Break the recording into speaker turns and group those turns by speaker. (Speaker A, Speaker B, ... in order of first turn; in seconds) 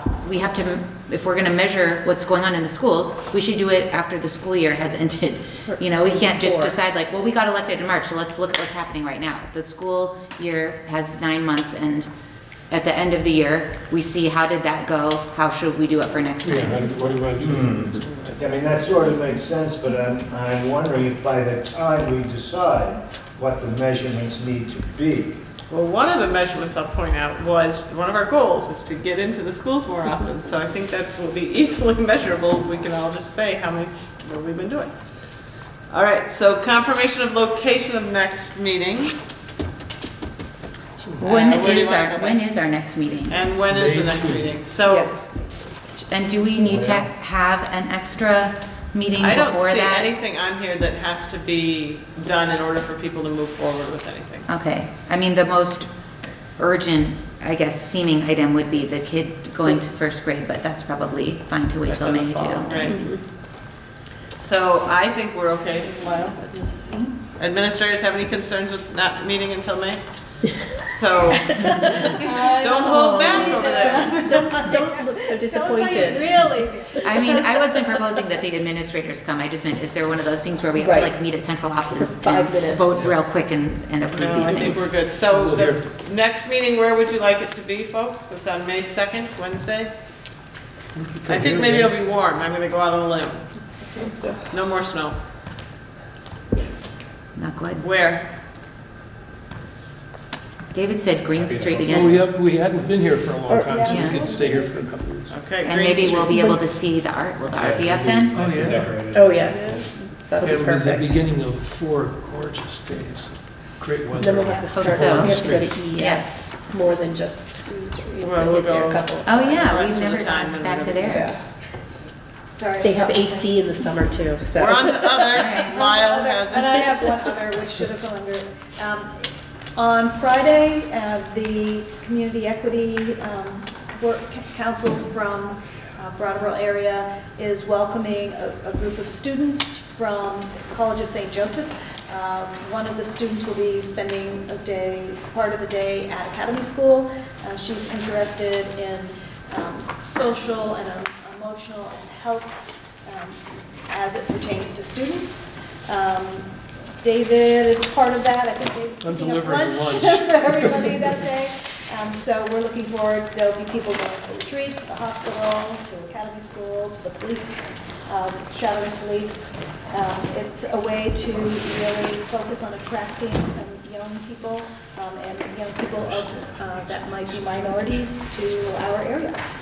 Speaker A: 0.2-12.1, 12.7-16.9, 41.2-43.4, 46.1-50.1, 54.5-55.9, 56.5-62.9, 77.0-84.9, 97.3-97.8, 100.7-102.2, 103.9-104.2, 105.6-108.3, 114.7-116.3, 119.2-121.3, 125.3-125.8
Speaker B: 5.7-6.7, 44.9-45.2, 62.8-63.2, 71.5-76.8, 80.8-81.1, 81.9-83.1, 94.1-94.4, 103.5-103.9, 106.0-106.6, 109.1-111.2, 114.1-119.8, 121.1-121.4, 122.8-125.3
Speaker C: 16.4-18.4, 43.7-44.5, 85.3-85.9, 90.9-91.9, 101.8-105.3, 108.3-108.9, 110.4-115.9, 159.0-161.1
Speaker D: 17.4-25.4, 46.6-47.1, 101.3-102.2, 107.5-109.9, 175.9-177.9
Speaker E: 25.7-34.9, 35.9-39.2, 41.2-42.5, 43.3-45.2, 49.2-54.5, 61.9-63.2, 64.3-66.6, 67.3-74.7, 84.1-89.9, 91.3-93.7, 94.5-95.2, 97.8-98.2, 105.3-106.4, 118.2-121.3, 124.5-127.1
Speaker F: 66.5-67.1, 71.8-78.3, 93.8-94.2, 103.7-104.8, 109.5-109.8, 114.4-114.8, 122.5-123.8, 125.6-179.4